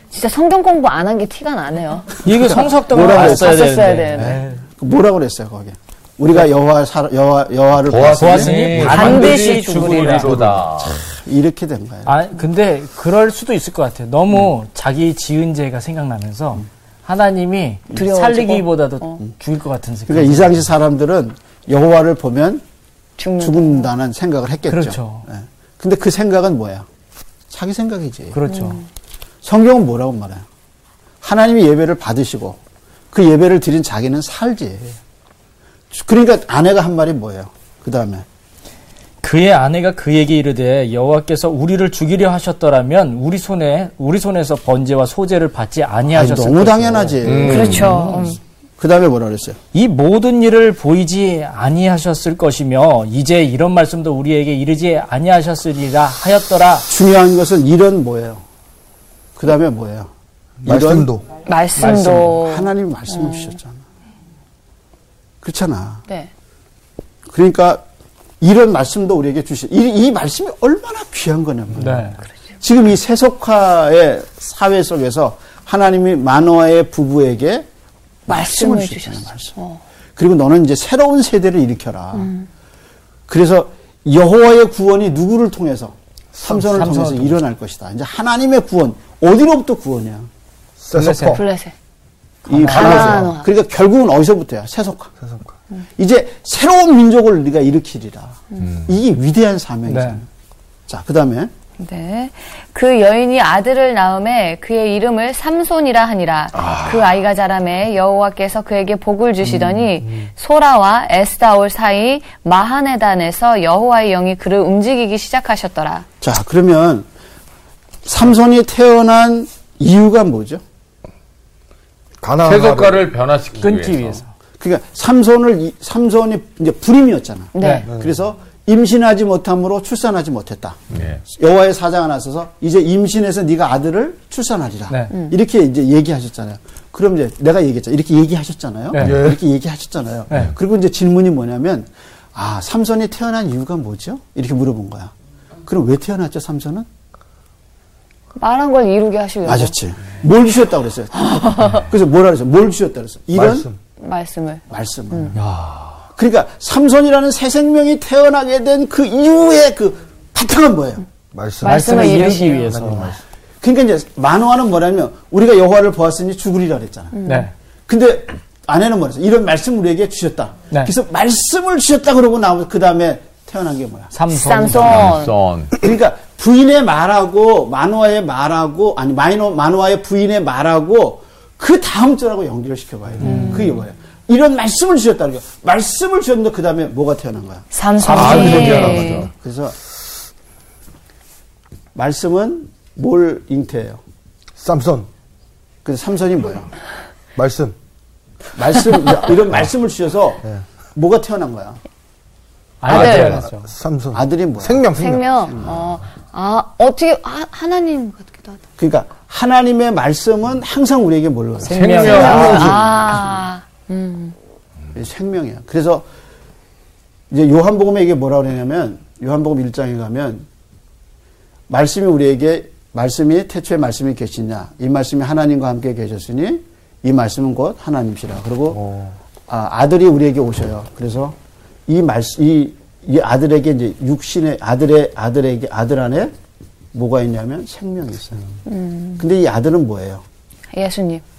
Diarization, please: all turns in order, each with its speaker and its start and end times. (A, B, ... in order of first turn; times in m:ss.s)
0:00.1-0:04.4 A
0:02.2-0:04.6 B
0:02.5-0:08.9 C
0:07.9-0:11.0 D
0:08.2-0:10.4 B
0:08.8-0:10.4 A
0:10.8-0:12.1 C
0:12.0-0:20.5 B
0:17.9-0:18.6 C
0:18.0-0:19.2 A
0:20.1-0:22.6 C
0:23.2-0:23.9 A
0:23.4-0:26.9 C
0:24.7-0:25.2 B
0:27.5-0:28.4 C
0:28.3-0:28.8 B
0:28.5-0:28.8 A
0:29.4-0:30.4 C
0:31.2-0:32.6 C
0:33.1-0:35.0 C
0:35.9-0:38.2 C
0:39.2-0:48.3 B
0:46.1-0:47.9 C
0:47.2-0:48.0 D
0:47.4-0:48.4 A
0:48.8-0:49.6 C
0:49.7-0:56.9 B
0:56.9-0:58.4 C
0:59.4-1:00.1 C
1:00.6-1:01.2 E
1:00.6-1:01.1 C
1:01.4-1:03.5 A
1:01.8-1:02.4 B
1:01.8-1:03.8 C
1:05.4-1:06.0 C
1:07.3-1:07.8 C
1:08.4-1:17.7 C
1:11.8-1:12.2 B
1:18.2-1:19.5 C
1:18.3-1:19.8 A
1:20.2-1:22.3 C
1:22.1-1:22.5 A
1:23.3-1:30.3 C
1:26.5-1:27.3 B
1:30.8-1:31.4 E
1:30.9-1:31.4 B
1:31.3-1:31.7 A
1:32.4-1:33.2 B
1:32.5-1:35.1 C
1:32.7-1:33.5 A
1:32.8-1:33.2 E
1:35.2-1:35.5 E
1:36.0-1:40.3 C
1:39.9-1:40.2 B
1:40.9-1:41.5 C
1:41.8-1:56.0 A
1:46.6-1:47.1 D
1:56.2-1:57.0 C
1:58.0-2:00.6 C
2:02.2-2:03.0 E
2:02.4-2:04.2 D
2:03.6-2:04.3 B
2:04.6-2:25.1 C
2:07.5-2:07.9 A
2:07.6-2:07.8 B
2:10.9-2:11.2 D
2:18.9-2:19.2 B
2:19.0-2:19.4 E
2:25.6-2:26.9 C
2:28.4-2:29.7 A
2:29.4-2:33.7 C
2:31.2-2:31.8 A
2:33.4-2:33.8 E
2:34.0-2:35.3 A
2:34.7-2:35.4 C
2:35.3-2:35.9 B
2:36.2-2:41.0 C
2:41.3-2:43.2 E
2:41.6-2:42.7 A
2:41.6-2:43.2 B
2:43.6-2:47.2 C
2:47.1-2:47.5 A
2:47.2-2:47.5 B
2:47.9-2:54.1 C
2:54.1-2:55.1 B
2:54.3-2:55.3 A
2:54.7-2:55.7 D
2:55.8-3:09.8 C
3:03.2-3:03.7 B
3:03.2-3:03.7 A
3:07.7-3:09.3 A
3:08.0-3:09.3 D
3:08.5-3:09.2 E
3:11.9-3:14.0 C
3:14.6-3:15.1 E
3:15.8-3:16.7 C
3:17.4-3:17.7 E
3:18.6-3:21.8 C
3:22.8-3:23.7 B
3:22.9-3:23.4 A
3:22.9-3:25.2 E
3:24.1-3:25.8 C
3:25.0-3:28.6 A
3:28.8-3:32.6 C
3:31.6-3:32.8 B
3:31.8-3:32.6 D
3:31.9-3:34.3 A
3:32.2-3:32.8 E
3:34.9-3:36.0 C
3:37.3-3:40.5 C
3:41.7-3:48.8 C
3:48.7-3:49.1 E
3:49.5-3:51.4 C
3:51.9-3:56.3 C
3:56.9-3:58.4 C
3:58.6-3:59.2 A
3:59.2-4:00.2 C
4:00.7-4:01.2 A